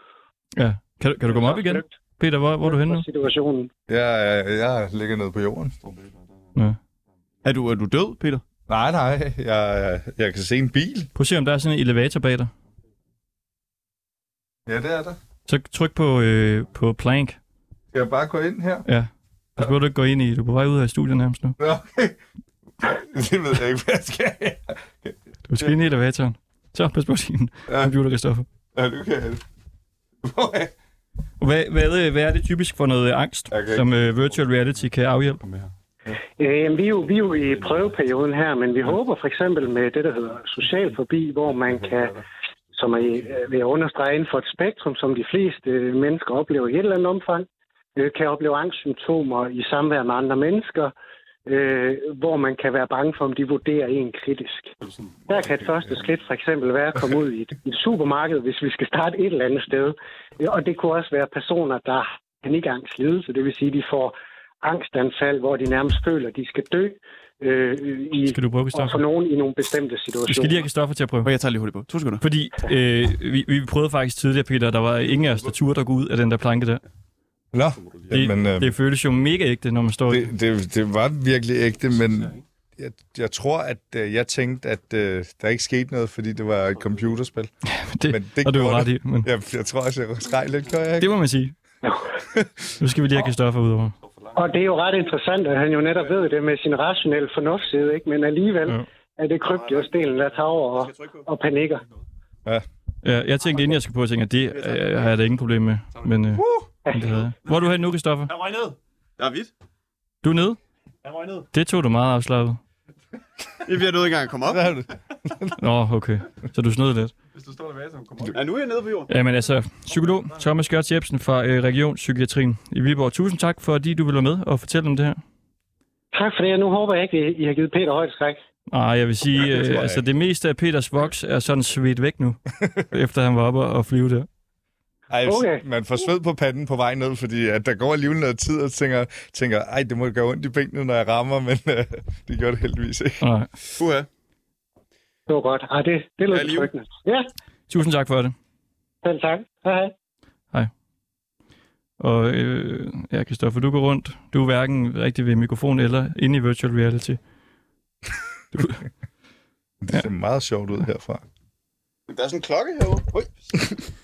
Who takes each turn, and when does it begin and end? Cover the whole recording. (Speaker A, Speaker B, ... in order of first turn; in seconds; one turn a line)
Speaker A: 0.6-3.0
Speaker B: 1.3-1.9
Speaker B: 2.6-3.7
Speaker C: 3.9-5.7
Speaker D: 5.8-6.8
Speaker E: 7.4-8.4
Speaker C: 8.7-11.1
Speaker A: 11.1-12.5
Speaker C: 14.7-15.2
Speaker A: 15.5-17.4
Speaker C: 17.9-18.9
Speaker A: 18.9-21.6
Speaker C: 21.6-22.2
Speaker C: 22.8-25.7
Speaker A: 25.5-28.5
Speaker C: 27.7-27.9
Speaker C: 28.7-29.4
Speaker C: 30.2-30.7
Speaker A: 31.4-35.4
Speaker C: 33.5-33.9
Speaker D: 34.0-35.7
Speaker B: 36.3-42.2
Speaker D: 37.0-38.1
Speaker D: 41.5-42.2
Speaker B: 42.7-50.9
Speaker D: 42.9-43.4
Speaker B: 51.5-54.7
Speaker D: 54.8-56.2
Speaker B: 55.3-70.7
Speaker A: 68.2-69.0
Speaker A: 70.3-71.3
Speaker E: 71.2-72.2
Speaker A: 72.2-76.8
Speaker D: 75.0-75.5
Speaker C: 77.5-78.7
Speaker D: 77.8-78.3
Speaker A: 78.1-80.3
Speaker C: 80.1-87.5
Speaker D: 81.9-82.4
Speaker D: 86.7-87.2
Speaker A: 87.7-89.3
Speaker C: 88.0-91.1
Speaker A: 91.0-91.5
Speaker D: 92.8-93.3
Speaker A: 92.8-93.9
Speaker D: 94.0-94.8
Speaker B: 94.3-101.8
Speaker D: 96.0-96.3
Speaker D: 99.5-101.2
Speaker A: 103.0-108.3
Speaker D: 104.5-105.2
Speaker D: 105.9-106.3
Speaker E: 106.3-106.7
Speaker B: 106.8-107.2
Speaker D: 108.3-108.8
Speaker E: 109.2-109.5
Speaker A: 110.2-110.6
Speaker D: 111.0-111.5
Speaker A: 111.5-112.6
Speaker E: 113.6-114.7
Speaker C: 114.5-115.6
Speaker A: 115.6-117.1
Speaker D: 117.3-118.6
Speaker E: 118.3-119.1
Speaker A: 119.1-125.2
Speaker D: 119.8-120.5
Speaker B: 126.1-128.4
Speaker A: 128.7-134.3
Speaker C: 129.4-130.0
Speaker C: 135.1-143.2
Speaker B: 135.2-135.6
Speaker A: 143.2-143.5
Speaker E: 143.8-144.1
Speaker B: 145.3-147.3
Speaker E: 146.3-146.7
Speaker A: 147.7-148.3
Speaker B: 149.0-149.9
Speaker A: 152.0-157.2
Speaker A: 158.5-158.8
Speaker C: 159.8-161.2
Speaker E: 162.1-163.8